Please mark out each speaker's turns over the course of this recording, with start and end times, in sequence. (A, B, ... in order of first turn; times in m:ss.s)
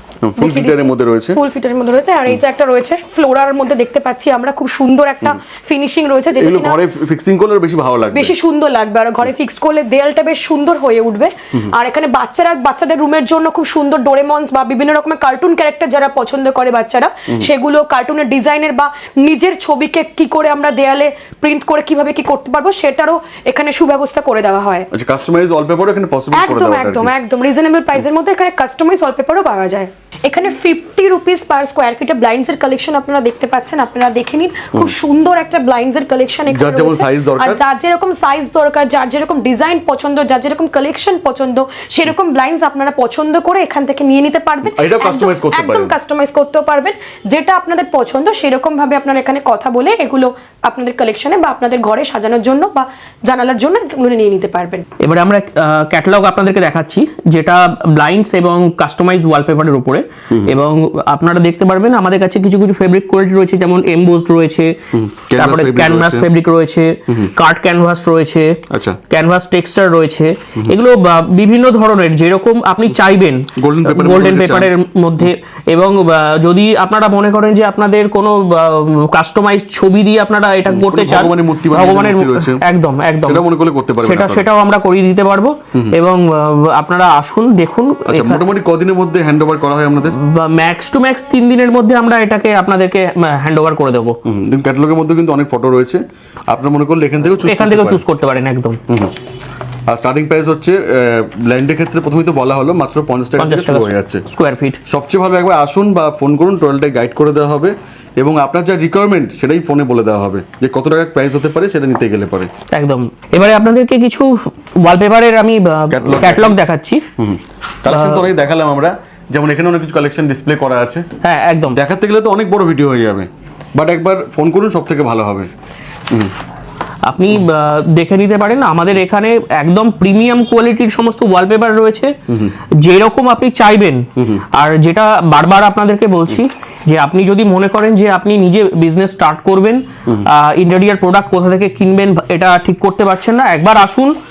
0:00.2-0:01.4 A
0:00.4-0:06.8 B
0:06.3-0:08.4 A
0:08.1-0:24.9 B
0:24.9-0:27.1 A
0:26.3-0:54.8 B
0:36.5-0:37.6 A
0:44.6-0:46.0 A
0:55.0-1:04.7 C
1:04.9-1:06.3 A
1:05.4-1:23.4 C
1:08.7-1:09.0 A
1:13.6-1:15.2 A
1:20.7-1:22.6 A
1:23.2-1:24.5 A
1:24.0-1:28.4 C
1:28.1-1:30.2 A
1:30.2-1:34.2 C
1:34.2-1:38.0 A
1:37.4-1:38.8 C
1:38.9-1:39.1 A
1:39.9-1:44.2 A
1:43.4-1:44.8 C
1:44.9-1:52.5 A
1:52.7-1:57.0 C
1:55.9-1:56.6 A
1:57.2-2:01.1 A
1:57.9-1:58.3 C
2:01.2-2:01.8 C
2:01.7-2:05.5 A
2:07.1-2:12.1 C
2:12.3-2:12.5 A
2:12.8-2:24.2 C
2:14.2-2:14.4 A